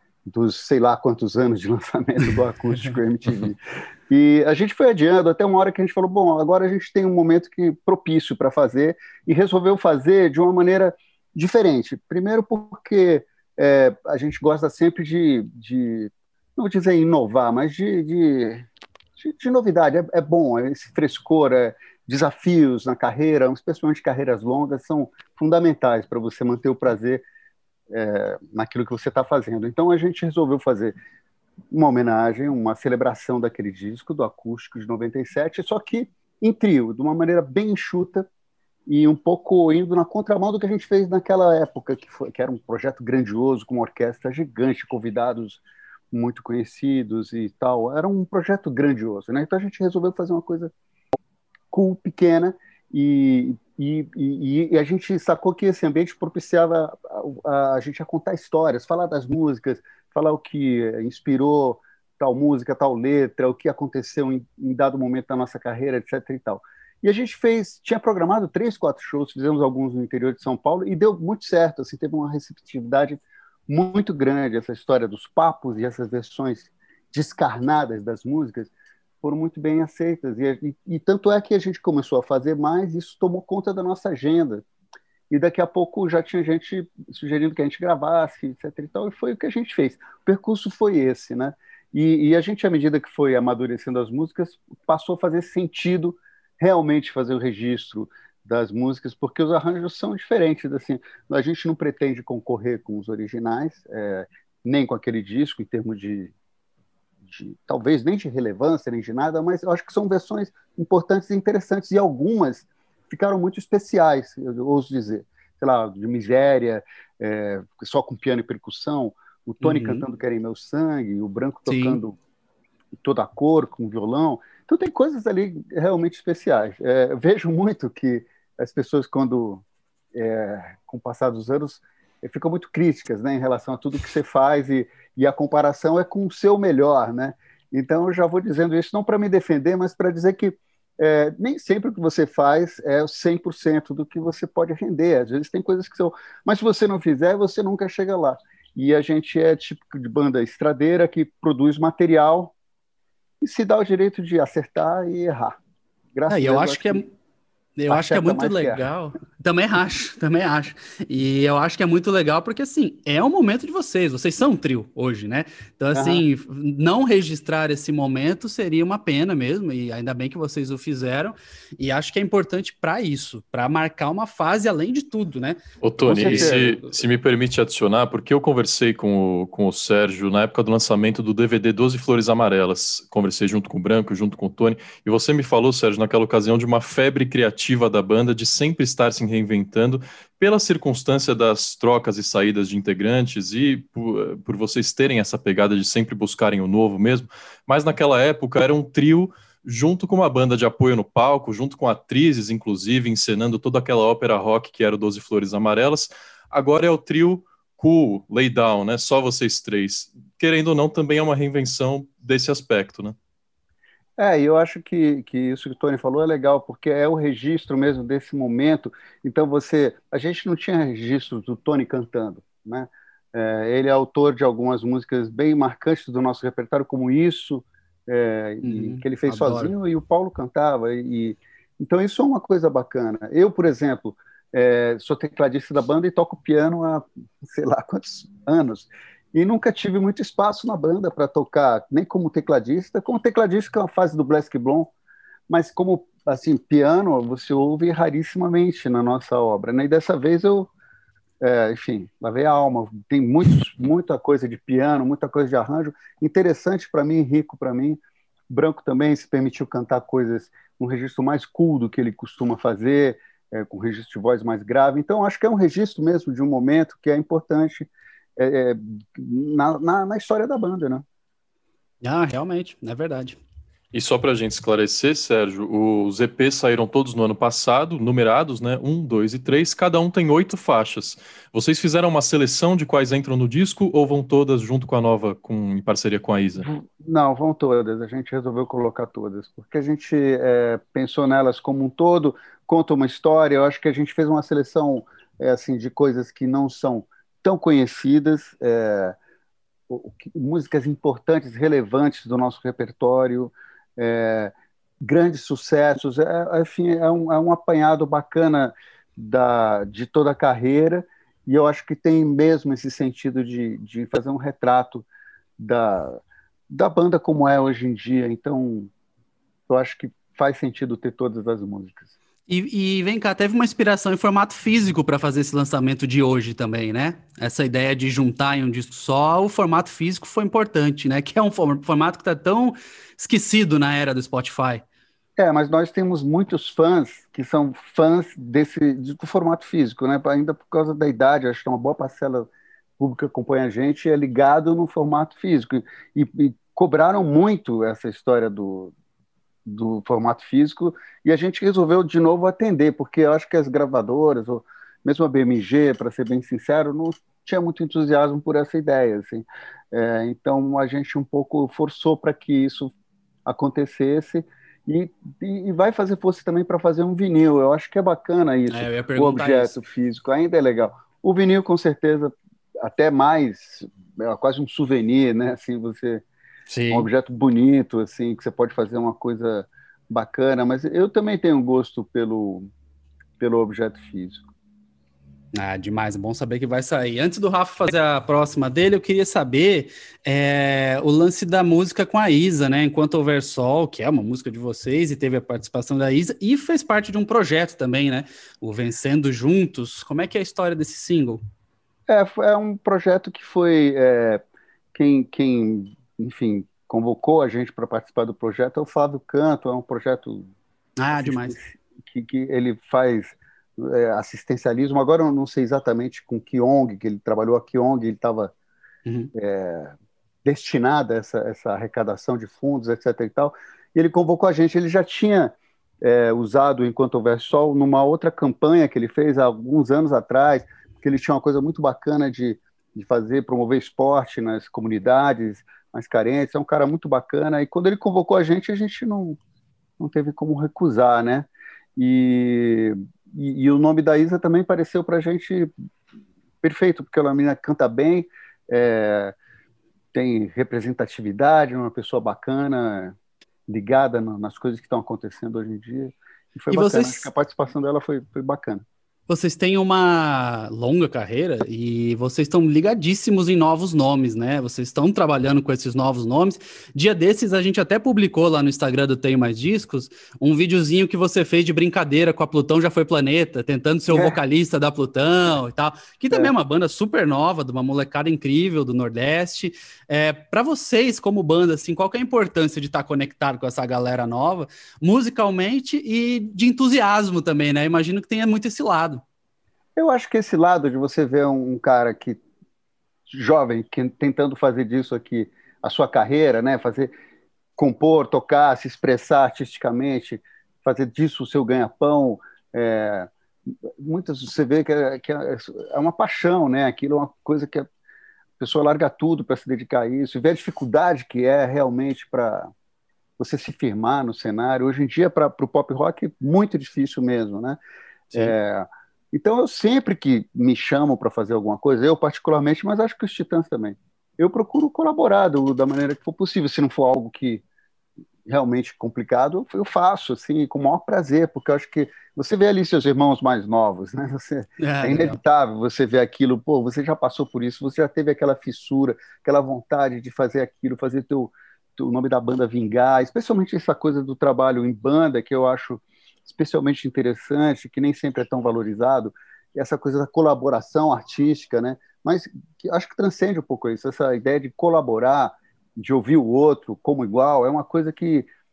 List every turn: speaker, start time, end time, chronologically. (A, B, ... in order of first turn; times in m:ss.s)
0:00.2-0:27.2 A
0:27.9-0:30.9 A
0:31.7-0:38.3 A
0:38.9-0:50.7 A
0:51.7-1:18.7 A
1:19.2-1:24.6 A
1:25.3-1:46.3 A
1:47.2-2:02.2 A
1:59.6-2:00.0 B
2:01.7-2:02.0 B
2:03.0-2:09.6 A
2:10.1-2:32.5 A
2:33.4-2:35.6 A
2:36.1-2:37.0 A
2:36.3-2:37.1 B
2:37.8-2:55.6 B
2:37.9-2:38.8 A
2:45.9-2:46.2 A
2:55.8-3:33.2 C
2:56.1-2:56.7 A
2:56.1-2:56.7 B
3:34.2-4:04.9 A
3:48.6-3:49.7 B
4:05.5-4:10.7 A
4:11.4-4:31.0 A
4:32.0-4:33.4 B
4:33.9-4:46.7 C
4:46.6-4:59.2 A
4:59.9-5:15.1 A
5:15.6-5:16.2 A
5:16.7-5:18.9 A
5:19.7-5:22.1 A
5:22.5-5:34.8 B
5:35.4-5:48.9 A
5:49.6-6:02.9 A
6:03.4-6:16.2 A
6:08.7-6:09.8 B
6:16.7-6:17.1 B
6:16.9-6:22.7 A
6:23.4-6:24.5 A
6:25.5-6:41.4 B
6:42.1-6:44.4 A
6:44.9-6:50.5 A
6:51.0-6:51.6 B
6:51.1-6:58.5 A
6:59.0-6:59.3 B
6:59.3-7:19.4 A
7:20.0-7:25.7 A
7:26.6-7:29.3 A
7:30.1-7:33.2 A
7:33.7-7:38.8 A
7:36.7-7:37.3 B
7:39.3-8:09.2 B
7:54.1-7:54.4 A
8:10.0-8:12.4 A
8:13.3-8:17.1 A
8:17.8-8:23.3 A
8:23.9-8:27.9 A
8:28.6-8:32.7 A
8:33.4-8:37.8 A
8:38.3-8:47.6 A
8:48.4-9:18.5 A
8:54.8-8:55.4 B